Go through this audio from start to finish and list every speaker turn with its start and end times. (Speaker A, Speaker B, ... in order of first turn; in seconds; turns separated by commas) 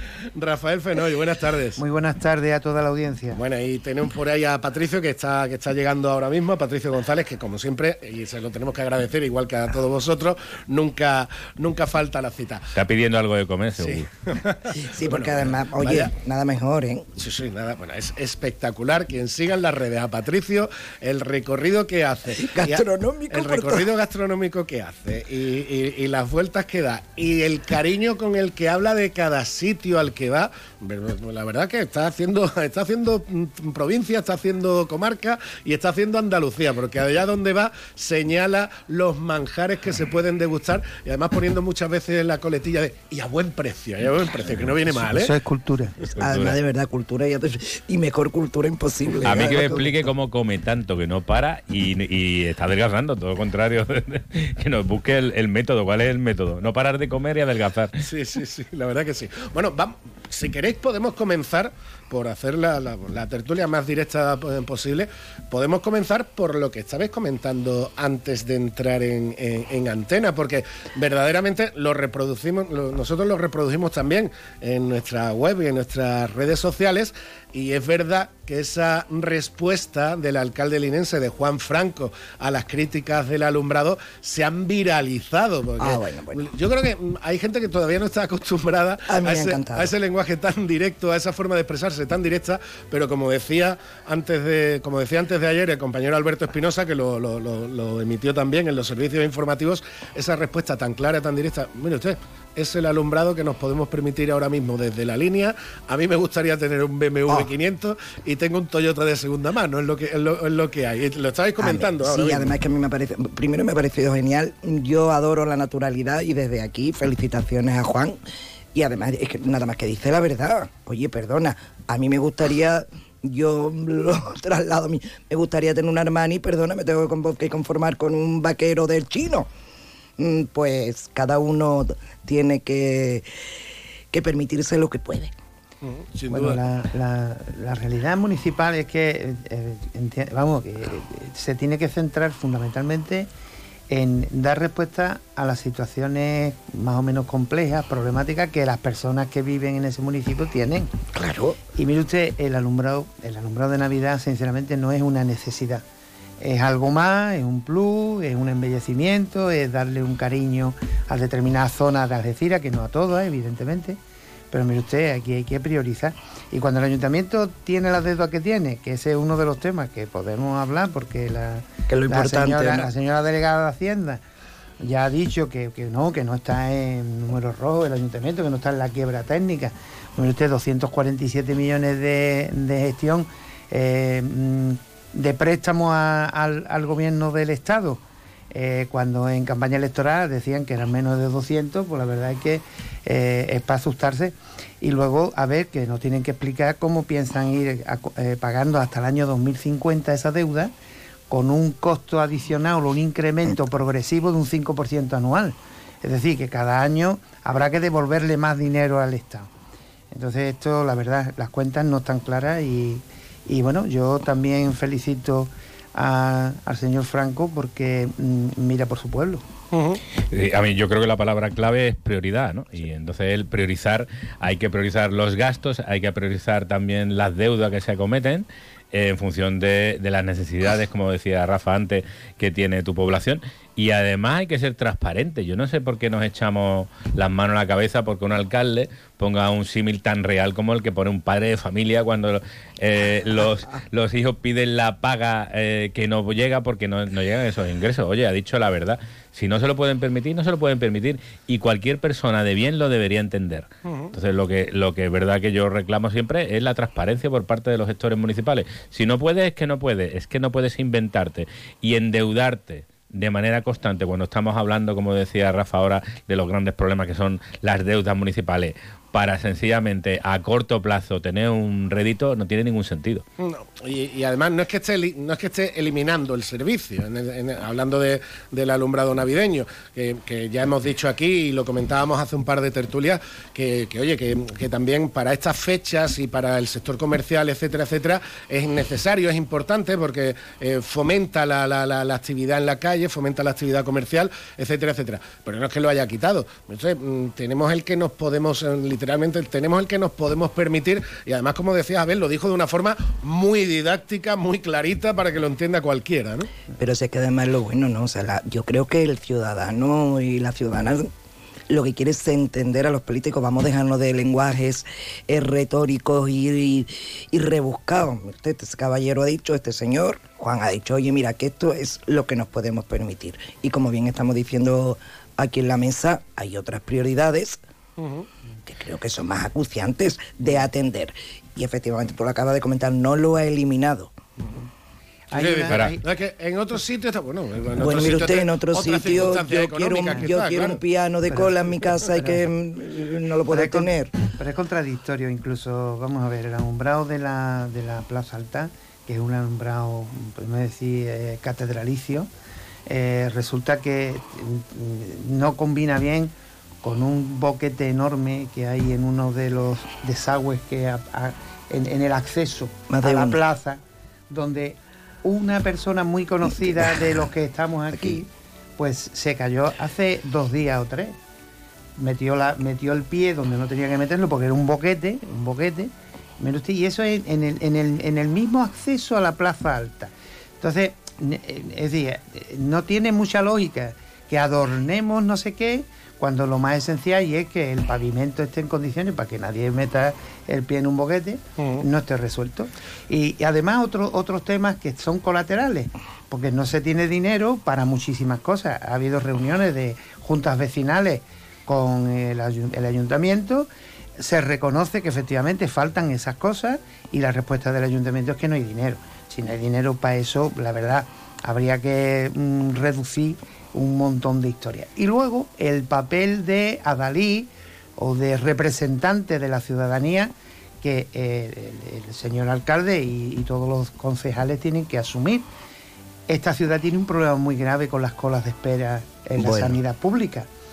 Speaker A: 0.3-1.8, Speaker B: 1.8-3.4, Speaker A: 3.3-12.7, Speaker C: 12.7-14.1, Speaker A: 13.8-16.1, Speaker D: 14.7-17.1, Speaker A: 17.2-45.3, Speaker D: 22.4-23.9, Speaker B: 44.9-45.9, Speaker C: 46.1-46.5, Speaker D: 46.2-50.0, Speaker C: 49.2-58.0, Speaker B: 49.4-49.9, Speaker A: 58.0-112.5, Speaker D: 85.8-86.5, Speaker D: 89.1-89.9, Speaker D: 111.6-118.2, Speaker D: 118.7-129.5, Speaker D: 130.2-133.2, Speaker D: 134.1-135.3, Speaker A: 135.8-136.6, Speaker B: 136.3-143.3, Speaker B: 143.9-150.9, Speaker D: 151.1-151.6, Speaker B: 151.7-155.8, Speaker B: 156.4-164.0, Speaker B: 164.5-174.2, Speaker D: 171.9-172.9, Speaker B: 174.8-200.7, Speaker B: 201.3-209.5, Speaker B: 210.1-219.4, Speaker A: 219.7-220.0, Speaker C: 220.3-273.2, Speaker A: 253.8-254.1, Speaker A: 273.4-306.5, Speaker D: 306.8-311.1, Speaker D: 311.7-327.6, Speaker A: 328.0-328.3, Speaker D: 328.6-334.1, Speaker B: 335.3-336.0, Speaker A: 335.3-340.8, Speaker D: 337.8-344.1, Speaker B: 341.3-342.4, Speaker B: 343.5-352.3, Speaker B: 352.9-356.3, Speaker B: 356.8-371.1, Speaker D: 362.9-363.4, Speaker D: 366.7-367.2, Speaker D: 367.9-368.2, Speaker B: 372.0-425.4, Speaker A: 391.6-391.8, Speaker B: 426.3-430.5, Speaker D: 429.4-429.8